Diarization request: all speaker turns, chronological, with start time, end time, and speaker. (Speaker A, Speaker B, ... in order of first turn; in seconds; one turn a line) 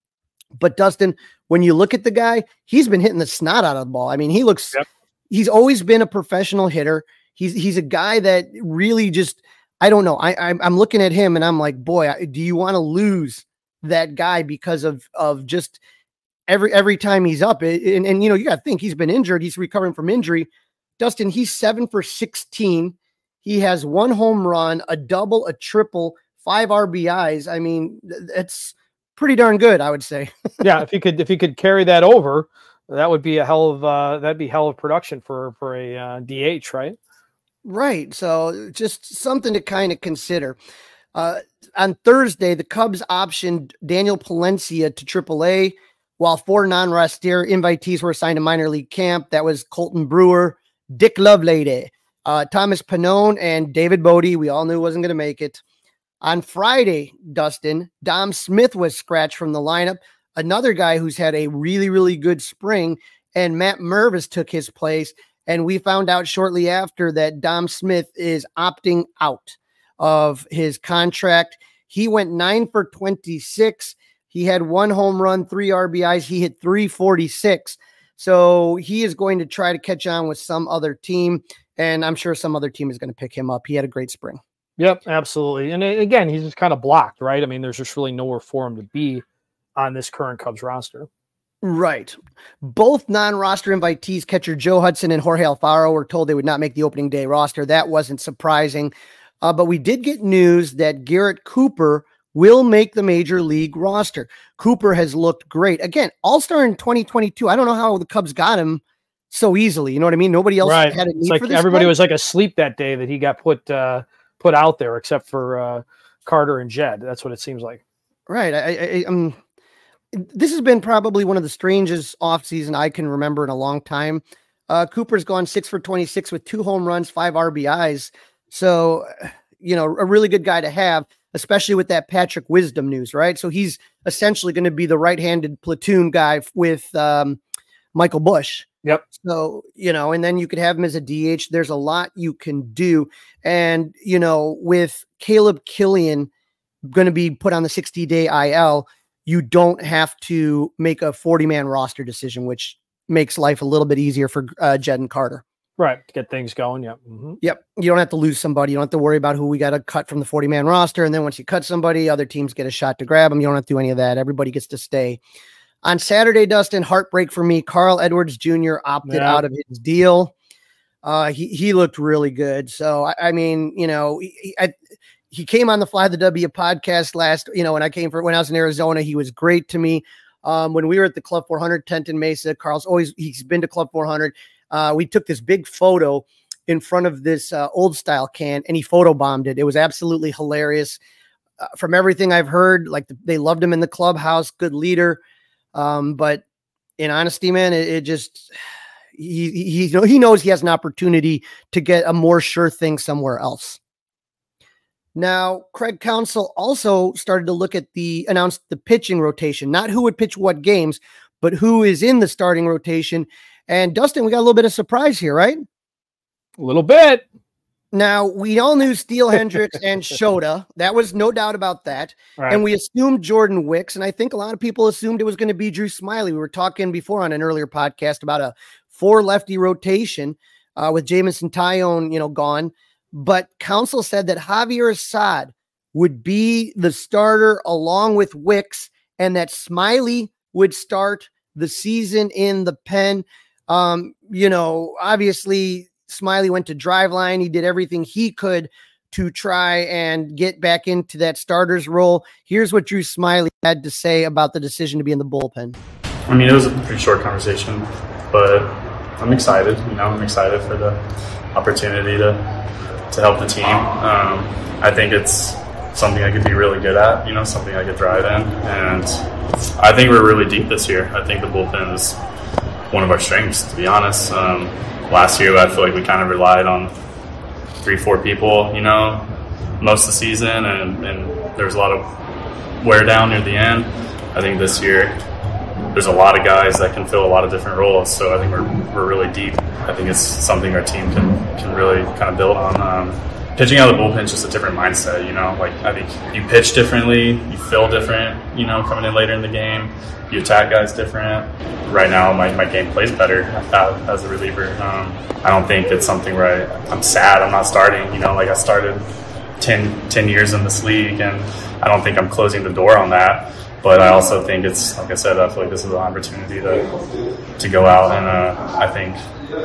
Speaker A: 0.6-4.8
Speaker A: 5.3-15.8
Speaker A: 16.5-30.6
Speaker B: 30.6-37.0
Speaker A: 37.6-40.6
Speaker A: 41.1-55.6
Speaker A: 56.2-84.4
Speaker B: 84.8-89.2
Speaker B: 89.8-91.1
Speaker A: 91.6-111.9
Speaker B: 110.6-117.8
Speaker A: 118.3-119.4
Speaker A: 120.1-137.4
Speaker A: 137.9-146.3
Speaker A: 146.9-155.4
Speaker B: 155.8-157.4
Speaker A: 157.4-165.2
Speaker A: 165.8-170.3
Speaker B: 169.1-169.4
Speaker A: 171.0-174.8
Speaker A: 175.3-191.0
Speaker A: 191.6-195.2
Speaker A: 195.8-196.4
Speaker A: 197.0-198.5
Speaker A: 199.2-203.8
Speaker A: 205.2-215.6
Speaker B: 216.6-217.2
Speaker A: 217.9-255.8
Speaker C: 256.3-261.0
Speaker C: 261.5-262.4
Speaker C: 263.1-269.2
Speaker C: 269.8-272.2
Speaker C: 272.9-276.9
Speaker C: 277.8-279.3
Speaker C: 279.8-282.1
Speaker C: 282.8-285.2
Speaker C: 285.9-309.1
Speaker C: 309.6-316.9
Speaker C: 317.6-319.2